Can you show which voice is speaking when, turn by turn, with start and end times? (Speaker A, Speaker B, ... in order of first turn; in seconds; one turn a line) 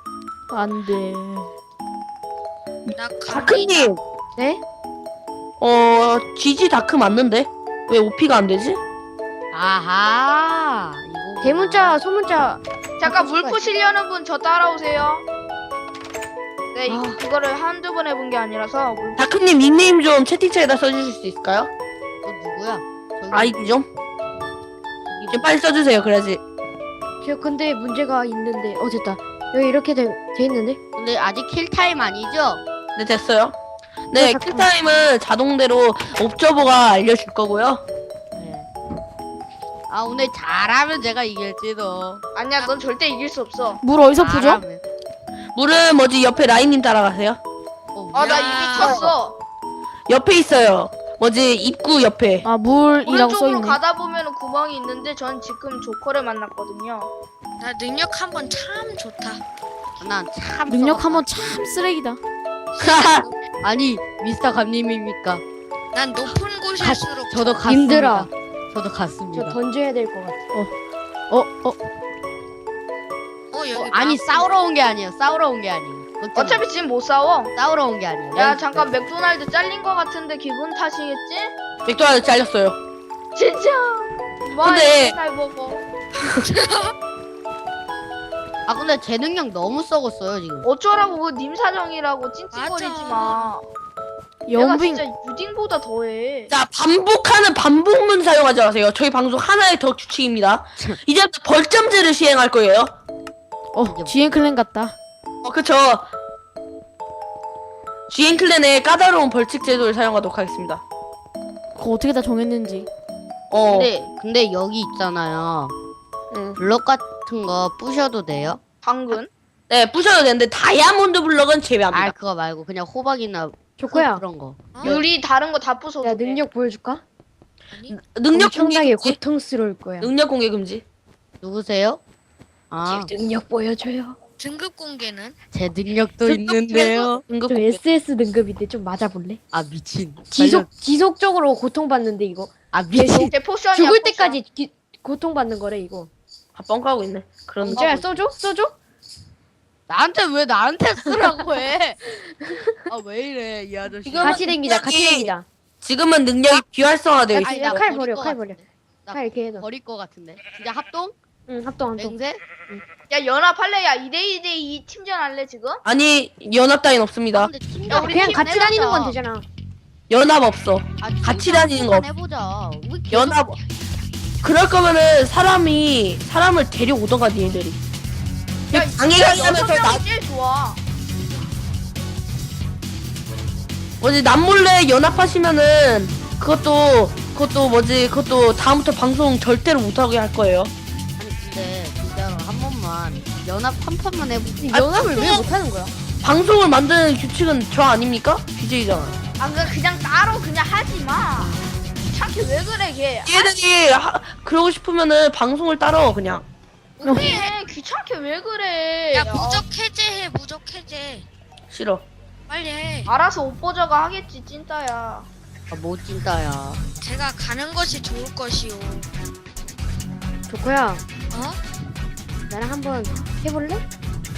Speaker A: 0.5-1.5
Speaker B: 2.9-4.0
Speaker C: 3.0-3.9
Speaker B: 5.6-8.8
Speaker D: 9.5-12.0
Speaker E: 11.4-13.7
Speaker F: 13.0-15.2
Speaker F: 16.7-19.2
Speaker E: 16.9-17.2
Speaker B: 19.2-21.7
Speaker D: 22.2-23.6
Speaker B: 23.3-23.9
Speaker D: 25.1-25.5
Speaker B: 25.3-26.4
Speaker E: 27.2-30.8
Speaker D: 31.0-32.6
Speaker B: 33.0-33.6
Speaker B: 34.1-37.8
Speaker E: 34.2-34.7
Speaker D: 38.4-38.7
Speaker D: 39.9-42.2
Speaker F: 42.4-43.8
Speaker A: 43.8-44.6
Speaker D: 44.2-44.8
Speaker B: 45.5-47.4
Speaker D: 48.0-49.1
Speaker F: 48.1-49.4
Speaker C: 48.2-49.1
Speaker B: 50.1-52.5
Speaker A: 52.5-53.8
Speaker F: 53.0-57.1
Speaker C: 57.6-59.4
Speaker D: 60.0-61.5
Speaker A: 60.7-62.2
Speaker C: 62.7-63.4
Speaker B: 62.8-63.3
Speaker D: 63.6-65.4
Speaker C: 65.9-67.8
Speaker D: 66.8-69.6
Speaker E: 67.7-68.3
Speaker E: 69.3-70.4
Speaker C: 73.5-74.5
Speaker D: 73.7-76.6
Speaker F: 76.3-77.5
Speaker D: 77.5-78.9
Speaker F: 78.3-81.5
Speaker B: 81.9-82.8
Speaker F: 83.3-85.8
Speaker B: 84.6-85.2
Speaker C: 86.2-86.9
Speaker D: 88.7-90.7
Speaker F: 90.6-93.7
Speaker C: 92.5-93.5
Speaker A: 94.5-95.1
Speaker F: 94.5-96.5
Speaker B: 96.5-102.9
Speaker A: 103.7-105.0
Speaker D: 103.8-104.2
Speaker B: 105.4-106.1
Speaker B: 108.1-110.8
Speaker A: 111.8-112.9
Speaker B: 113.5-113.9
Speaker D: 113.7-115.7
Speaker B: 116.3-116.6
Speaker D: 116.6-118.6
Speaker F: 118.8-119.3
Speaker B: 119.7-122.1
Speaker D: 121.9-124.7
Speaker E: 123.8-124.2
Speaker C: 124.7-125.0
Speaker F: 124.8-126.4
Speaker E: 126.0-127.0
Speaker C: 127.7-128.0
Speaker B: 127.9-129.2
Speaker E: 128.3-130.1
Speaker B: 130.0-130.8
Speaker D: 131.4-132.0
Speaker D: 132.7-133.1
Speaker E: 132.9-134.2
Speaker C: 134.4-135.4
Speaker D: 135.5-137.2
Speaker B: 136.3-138.0
Speaker E: 137.5-139.4
Speaker D: 139.5-140.7
Speaker E: 140.3-146.1
Speaker D: 142.7-143.3
Speaker F: 143.1-144.4
Speaker B: 146.6-147.9
Speaker E: 147.6-148.8
Speaker D: 147.7-148.1
Speaker D: 149.9-152.0
Speaker E: 152.2-152.7
Speaker D: 152.9-154.4
Speaker B: 154.1-155.3
Speaker E: 154.2-155.5
Speaker B: 155.8-157.6
Speaker E: 157.3-159.7
Speaker D: 157.4-161.2
Speaker E: 161.5-162.2
Speaker D: 162.0-162.4
Speaker F: 163.1-165.8
Speaker B: 165.8-167.5
Speaker D: 167.4-169.2
Speaker E: 167.9-169.5
Speaker F: 167.9-168.5
Speaker B: 170.1-172.1
Speaker D: 171.0-173.6
Speaker B: 173.1-173.6
Speaker B: 174.4-177.8
Speaker F: 178.7-180.8
Speaker B: 178.7-180.0
Speaker B: 184.0-190.7
Speaker D: 191.2-194.7
Speaker E: 194.6-195.9
Speaker B: 194.8-195.4
Speaker B: 196.2-199.2
Speaker F: 199.4-203.5
Speaker B: 203.3-206.4
Speaker F: 207.0-209.6
Speaker A: 207.0-207.3
Speaker C: 207.1-207.5
Speaker C: 209.1-211.3
Speaker B: 211.7-212.1
Speaker C: 212.5-213.1
Speaker F: 213.1-215.3
Speaker D: 215.7-216.8
Speaker C: 217.0-219.1
Speaker E: 220.5-221.0
Speaker C: 221.3-221.6
Speaker E: 222.5-223.8